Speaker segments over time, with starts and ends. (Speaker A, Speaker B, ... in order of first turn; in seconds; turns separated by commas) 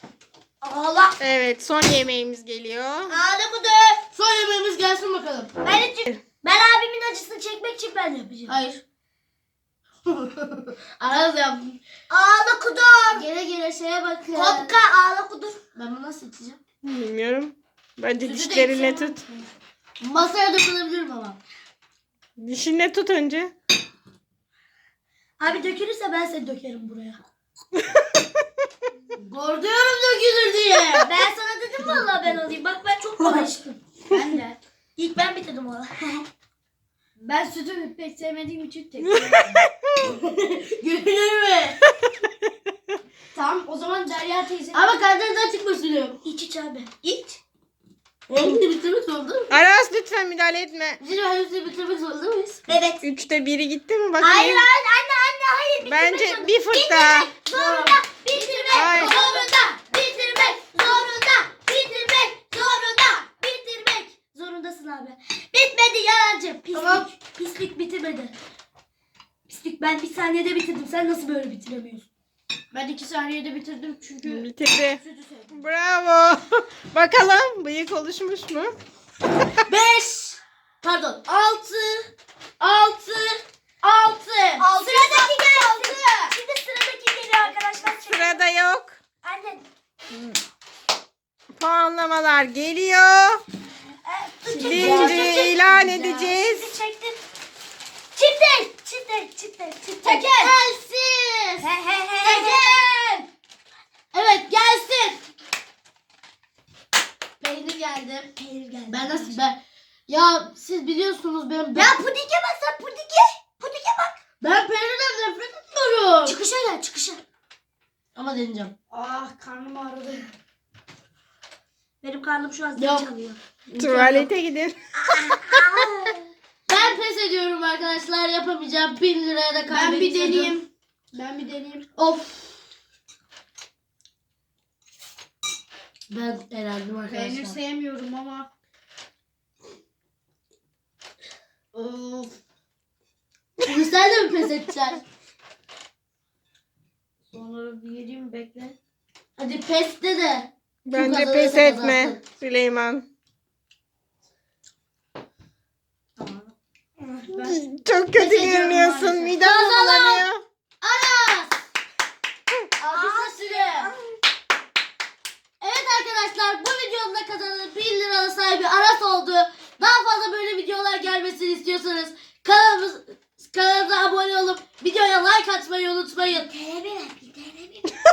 Speaker A: 0.6-1.2, Speaker B: 1.2-3.2, Speaker A: 3.1-4.0, Speaker C: 4.1-5.5, Speaker A: 5.6-8.5, Speaker C: 8.5-8.8, Speaker C: 10.1-11.8, Speaker A: 12.1-13.2, Speaker C: 13.2-14.8, Speaker A: 14.3-15.6, Speaker C: 15.8-16.6, Speaker B: 16.8-19.2, Speaker C: 18.2-19.1, Speaker C: 20.0-21.4, Speaker B: 22.4-23.5, Speaker A: 25.4-27.2, Speaker C: 29.2-31.1, Speaker A: 31.0-33.8, Speaker D: 34.1-34.6, Speaker A: 35.0-35.9, Speaker D: 37.2-39.6, Speaker B: 39.0-40.0, Speaker C: 40.0-41.8, Speaker D: 43.3-44.8, Speaker C: 44.7-46.2, Speaker A: 46.2-47.4, Speaker C: 48.3-49.5, Speaker B: 49.5-51.0, Speaker C: 51.0-52.8, Speaker A: 52.7-53.0, Speaker B: 53.0-54.7, Speaker A: 54.2-68.3, Speaker B: 55.9-57.3, Speaker C: 57.5-59.5, Speaker B: 58.7-59.1, Speaker D: 59.0-59.3, Speaker C: 66.8-67.0, Speaker A: 69.5-72.1, Speaker D: 72.7-74.5, Speaker B: 74.2-78.7, Speaker D: 75.0-75.5, Speaker C: 79.7-82.1, Speaker C: 82.6-84.7, Speaker D: 84.6-86.3, Speaker A: 84.7-88.4, Speaker B: 88.1-89.0, Speaker A: 89.2-89.7, Speaker B: 91.5-93.4, Speaker A: 94.0-97.2, Speaker C: 94.6-95.4, Speaker B: 94.6-96.8, Speaker D: 94.7-95.2, Speaker A: 98.2-100.5, Speaker C: 100.0-101.7, Speaker A: 101.6-102.8, Speaker C: 102.2-103.2, Speaker C: 104.1-105.2, Speaker C: 107.4-108.3, Speaker A: 108.4-109.4, Speaker C: 108.9-112.0, Speaker A: 111.7-114.2, Speaker C: 114.4-116.4, Speaker A: 116.3-117.2, Speaker C: 118.2-118.8, Speaker D: 118.9-120.3, Speaker A: 122.0-123.4, Speaker C: 122.8-123.1, Speaker C: 123.7-124.3, Speaker B: 123.8-125.6, Speaker A: 125.1-126.2, Speaker C: 126.7-130.6, Speaker D: 129.7-131.9, Speaker C: 132.0-132.6, Speaker C: 136.1-137.6, Speaker D: 137.1-138.5, Speaker D: 141.7-142.3, Speaker C: 143.7-145.0, Speaker D: 147.3-148.8, Speaker C: 149.4-152.2, Speaker B: 150.9-153.1, Speaker D: 156.2-157.6, Speaker B: 157.3-160.4, Speaker D: 158.1-159.4, Speaker C: 159.4-160.3, Speaker C: 160.8-161.6, Speaker C: 162.8-163.9, Speaker A: 162.9-163.9, Speaker C: 165.6-176.5, Speaker A: 176.3-177.9